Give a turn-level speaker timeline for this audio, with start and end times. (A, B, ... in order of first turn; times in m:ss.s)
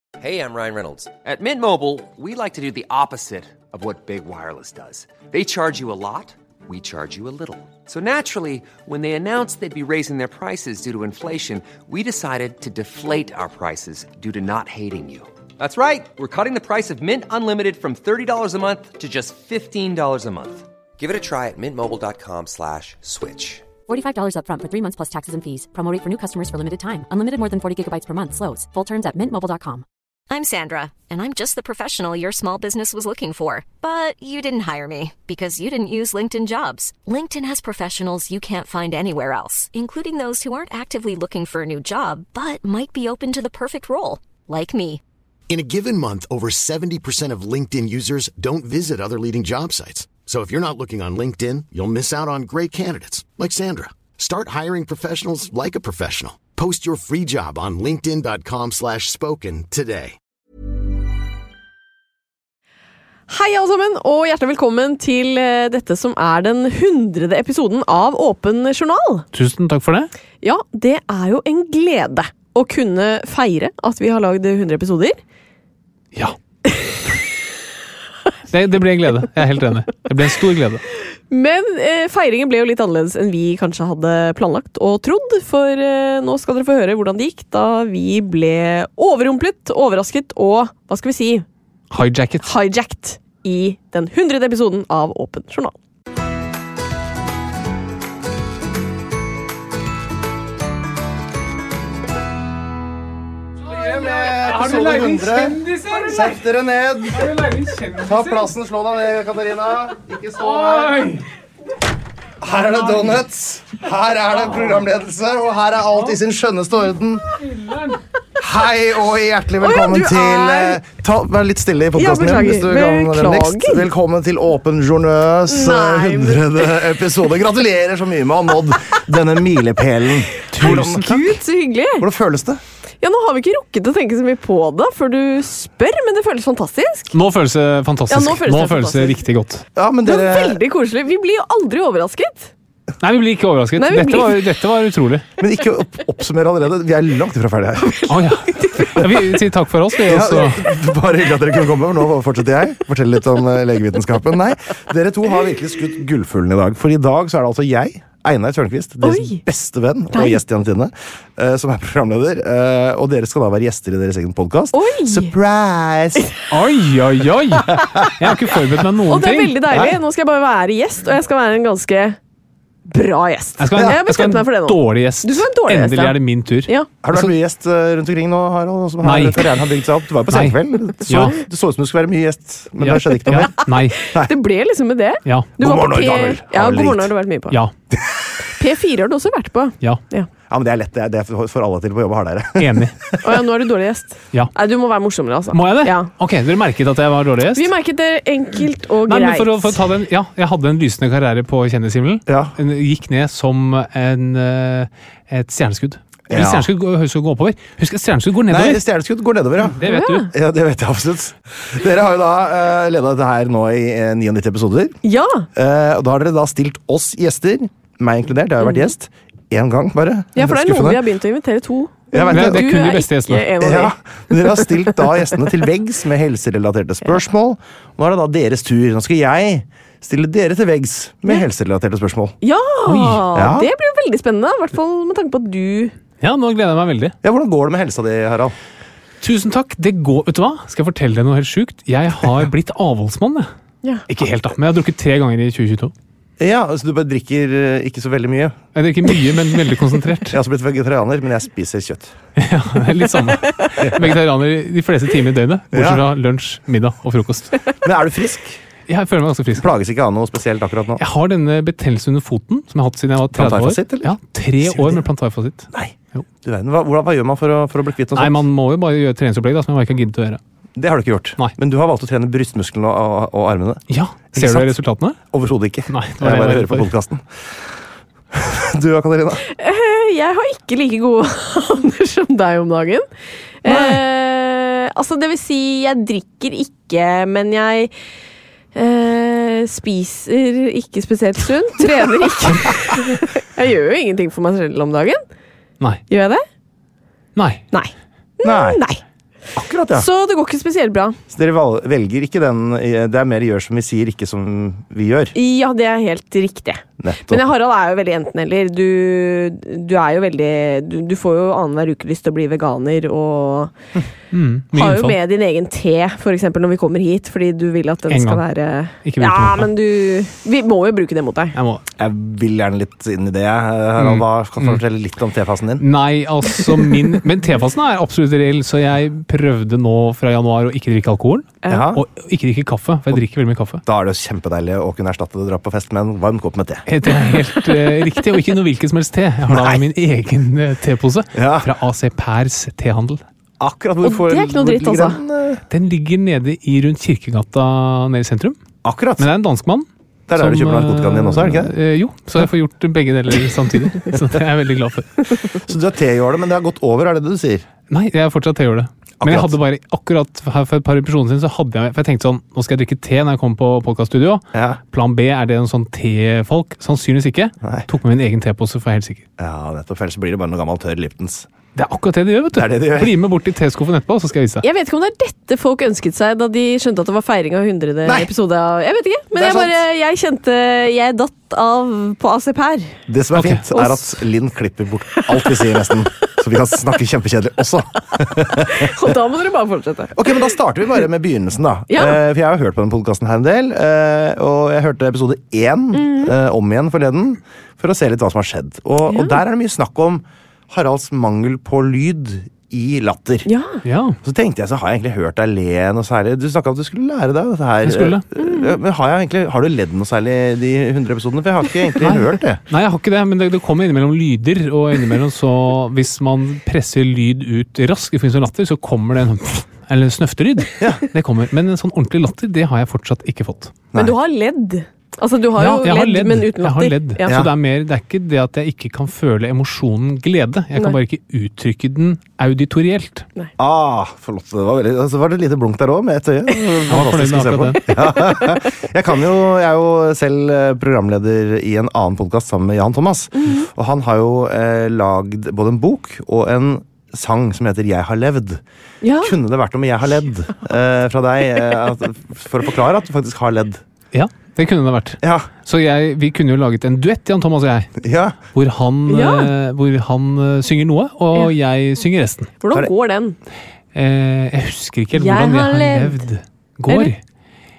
0:00.2-0:23.8 A
0:23.9-0:29.8 B
0:30.3-0:45.0 C
0:45.5-1:00.2 D
1:03.3-1:09.3 E
1:09.3-1:10.1 F
1:10.4-1:15.2 E
1:18.5-1:20.8 F
1:21.3-1:31.4 E
1:31.9-1:32.5 F
1:32.4-1:35.8 E
1:43.7-1:47.3 G
1:43.7-1:46.4 F
1:47.1-1:48.5 F
1:48.0-1:51.1 G
1:50.4-1:51.2 F
1:52.4-1:57.3 G
1:52.7-1:53.2 F
1:57.4-1:58.0 F
1:58.4-2:11.2 G
1:59.6-2:00.8 E
2:02.0-2:03.8 E
2:05.5-2:06.8 E
2:10.5-2:11.2 F
2:10.6-2:12.0 E
2:12.0-2:12.6 G
2:13.0-2:17.2 E
2:17.1-2:19.6 F
2:18.1-2:19.2 E
2:19.8-2:20.6 G
2:20.0-2:22.5 E
2:23.0-2:25.3 F
2:23.8-2:24.4 E
2:25.4-2:28.2 G
2:28.1-2:30.7 F
2:28.6-2:29.0 E
2:30.0-2:46.3 G
2:39.0-2:39.4 E
2:40.1-2:40.4 E
2:44.7-2:45.3 E
2:46.5-2:49.9 F
2:49.1-2:52.2 E
2:52.9-2:56.9 E
2:53.6-2:57.3 F
2:57.0-3:03.5 G
2:59.0-2:59.6 F
3:00.3-3:01.4 F
3:02.8-3:04.0 F
3:04.1-3:07.6 E
3:05.3-3:05.5 F
3:05.6-3:07.1 G
3:07.9-3:08.3 G
3:08.5-3:10.3 E
3:10.5-3:13.1 G
3:12.6-3:13.0 F
3:13.2-3:16.1 E
3:15.5-3:17.7 F
3:17.6-3:19.8 E
3:19.1-3:28.8 F
3:22.3-3:22.6 G
3:26.3-3:26.7 G
3:28.5-3:35.0 G
3:29.8-3:30.3 F
3:29.9-3:30.3 E
3:35.0-3:35.5 E
3:35.6-3:41.0 G
3:38.6-3:38.9 E
3:40.4-3:44.7 E
3:42.1-3:42.7 G
3:42.3-3:43.5 F
3:43.6-3:52.4 G
3:52.4-3:56.0 E
3:52.9-3:53.3 F
3:53.4-3:53.7 G
3:56.2-3:57.2 F
3:57.2-3:58.5 G
3:59.2-4:03.5 F
4:04.1-4:05.9 F
4:06.4-4:08.6 G
4:08.8-4:10.4 F
4:10.3-4:12.2 G
4:12.4-4:17.6 F
4:15.7-4:16.0 G
4:17.8-4:18.6 G
4:18.9-4:19.7 F
4:19.6-4:21.0 G
4:21.0-4:26.2 F
4:23.3-4:25.0 G
4:25.7-4:28.4 G
4:28.1-4:30.4 F
4:30.8-4:34.8 G
4:33.9-4:35.2 F
4:35.3-4:37.6 G
4:35.9-4:36.9 F
4:38.3-4:39.4 G
4:39.5-4:43.1 E
4:43.6-4:47.9 E
4:43.7-4:44.0 G
4:48.8-4:55.2 E
4:56.1-4:56.4 E
4:57.4-4:57.6 F
4:57.7-4:59.0 E
4:58.4-4:58.8 G
4:59.6-5:00.1 G
4:59.9-5:01.2 E
5:01.3-5:05.3 G
5:05.4-5:13.7 E
5:07.0-5:07.4 G
5:14.3-5:15.2 F
5:14.7-5:21.6 E
5:18.1-5:18.4 F
5:19.0-5:19.7 F
5:21.6-5:21.8 F
5:22.0-5:25.8 G
5:24.0-5:24.8 F
5:25.8-5:33.8 F
5:31.7-5:32.0 G
5:33.8-5:36.8 G
5:36.9-5:43.2 F
5:37.2-5:37.6 E
5:39.5-5:39.8 G
5:41.4-5:41.7 G
5:43.6-5:45.6 G
5:44.0-5:45.2 E
5:45.7-5:48.6 F
5:48.8-5:49.3 G
5:49.2-5:55.4 F
5:50.3-5:51.7 G
5:55.6-5:57.7 G
5:57.9-6:09.3 F
5:59.2-5:59.6 G
6:04.5-6:04.8 G
6:09.4-6:11.5 G
6:11.8-6:14.6 F
6:12.5-6:13.2 G
6:14.6-6:23.0 E
6:18.0-6:18.3 G
6:19.4-6:19.8 G
6:23.1-6:29.0 G
6:23.3-6:23.6 F
6:23.7-6:24.0 E
6:28.5-6:30.4 E
6:30.2-6:43.5 G
6:31.9-6:32.2 E
6:35.9-6:36.3 E
6:39.1-6:39.4 E
6:43.5-6:43.8 E
6:43.8-6:44.2 F
6:44.2-6:52.6 G
6:47.8-6:48.2 F
6:48.4-6:48.8 E
6:52.0-7:03.8 F
7:04.0-7:07.4 E
7:05.6-7:13.3 F
7:13.6-7:28.6 G
7:16.9-7:17.8 F
7:18.0-7:18.6 E
7:23.4-7:23.7 E
7:29.0-7:29.3 E
7:29.2-7:33.8 G
7:34.1-7:38.0 F
7:35.2-7:35.5 G
7:38.0-7:38.4 G
7:38.5-7:42.5 F
7:39.1-7:39.5 E
7:42.6-7:43.4 E
7:43.9-7:47.2 F
7:45.2-7:46.3 E